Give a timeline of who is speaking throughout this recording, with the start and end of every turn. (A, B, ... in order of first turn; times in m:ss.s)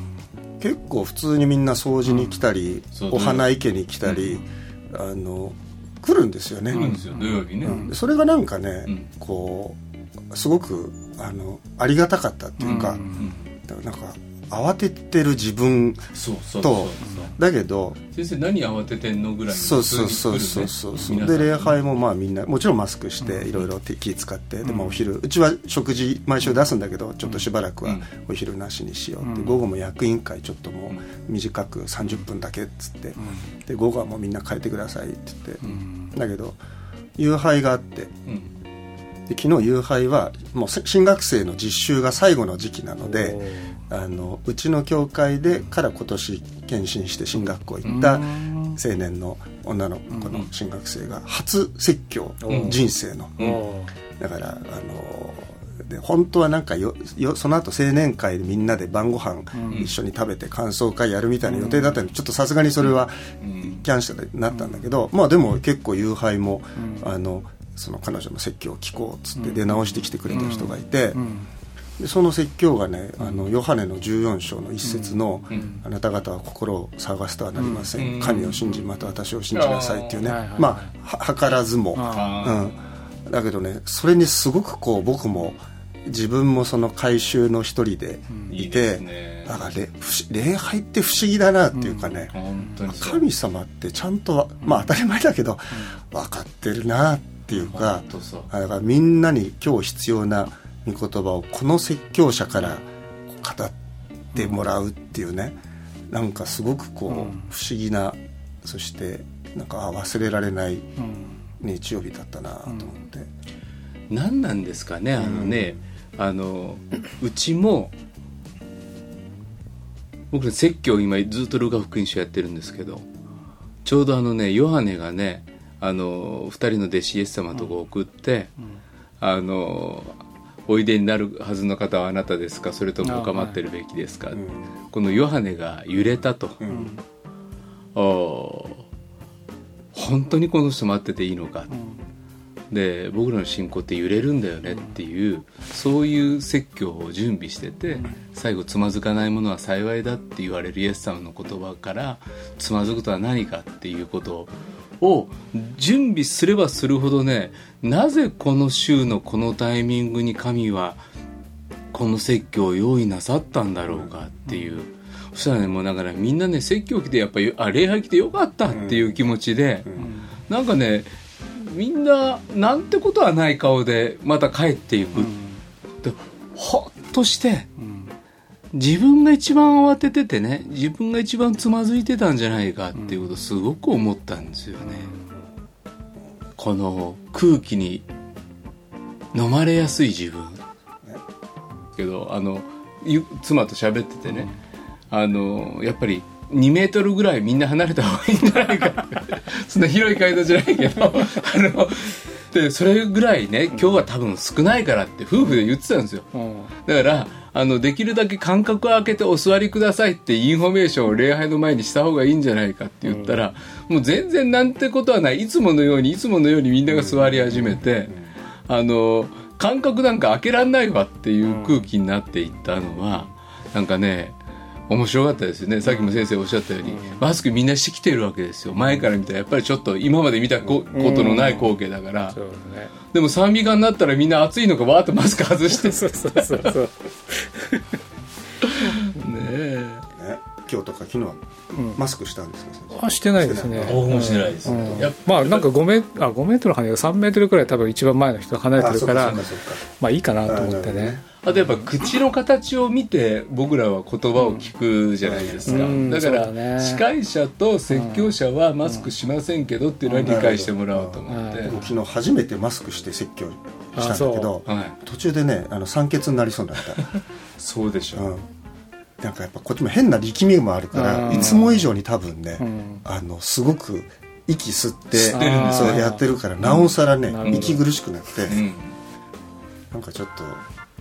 0:00.6-0:07.0 A
0:02.9-0:03.5 B
0:04.0-0:04.4 B
0:06.7-0:07.9 B
0:06.7-0:07.9 C
0:07.6-0:09.8 A
0:10.3-0:13.0 A
0:12.6-0:13.3 C
0:12.6-0:13.4 B
0:13.6-0:16.1 A
0:16.1-0:17.3 B
0:16.6-0:18.0 A
0:17.0-0:17.3 C
0:18.1-0:21.8 B
0:19.5-0:36.6 A
0:24.6-0:25.0 B
0:29.2-0:29.5 C
0:35.6-0:36.1 C
0:37.2-0:38.1 A
0:38.3-0:38.5 B
0:39.3-0:53.4 A
0:43.0-0:43.8 C
0:47.8-0:48.8 C
0:52.4-0:52.8 C
0:52.5-0:52.8 B
0:53.4-0:53.9 C
0:54.2-1:11.2 A
0:59.5-0:59.8 C
1:01.4-1:02.0 C
1:02.8-1:03.8 B
1:10.3-1:11.5 C
1:12.0-1:32.3 A
1:14.8-1:15.8 C
1:17.6-1:17.9 C
1:18.0-1:18.7 B
1:19.5-1:20.2 B
1:20.2-1:20.9 C
1:22.0-1:22.3 C
1:22.1-1:22.8 B
1:28.5-1:29.7 B
1:31.8-1:32.1 C
1:32.3-1:33.3 B
1:32.9-1:43.8 A
1:37.5-1:38.5 B
1:44.3-1:45.6 A
1:46.1-1:50.9 A
1:47.1-1:47.4 C
1:51.0-1:51.3 C
1:51.6-1:53.3 A
1:54.1-1:57.9 B
1:55.2-1:55.8 A
2:00.3-2:03.0 B
2:03.8-2:08.5 B
2:09.2-2:16.6 B
2:13.0-2:13.6 C
2:14.3-2:14.6 A
2:16.6-2:16.9 A
2:16.7-2:17.0 C
2:17.9-2:18.8 B
2:19.9-2:21.7 B
2:22.7-2:41.0 B
2:41.9-2:49.9 B
2:48.7-2:49.2 A
2:50.0-2:50.3 C
2:50.5-2:55.4 B
2:55.2-2:55.6 C
2:56.0-2:57.7 B
2:57.8-2:58.1 C
2:58.7-3:05.1 B
3:06.6-3:08.0 B
3:09.3-3:10.6 B
3:12.0-3:14.5 B
3:15.1-3:26.3 B
3:26.3-3:26.7 C
3:26.8-3:38.1 B
3:33.0-3:33.4 C
3:36.9-3:38.3 A
3:38.7-3:44.4 B
3:41.5-3:41.9 C
3:44.9-3:52.4 B
3:46.8-3:47.2 C
3:50.9-3:51.8 C
3:52.3-3:52.9 C
3:53.1-3:56.8 B
3:55.8-3:57.8 C
3:58.6-4:00.0 B
4:00.1-4:05.1 A
4:02.9-4:11.2 C
4:03.8-4:05.7 B
4:08.8-4:09.8 A
4:09.1-4:09.4 B
4:10.4-4:11.3 A
4:11.4-4:21.7 B
4:15.2-4:16.0 A
4:15.7-4:17.0 C
4:17.9-4:18.3 C
4:20.2-4:27.1 A
4:21.3-4:21.8 C
4:24.0-4:24.5 C
4:24.6-4:25.0 B
4:27.6-4:28.3 B
4:28.1-4:28.5 A
4:29.2-4:38.6 A
4:30.9-4:31.6 C
4:31.3-4:31.9 B
4:32.6-4:33.0 C
4:35.1-4:37.8 B
4:35.3-4:37.8 C
4:38.5-4:39.0 B
4:39.9-4:40.7 A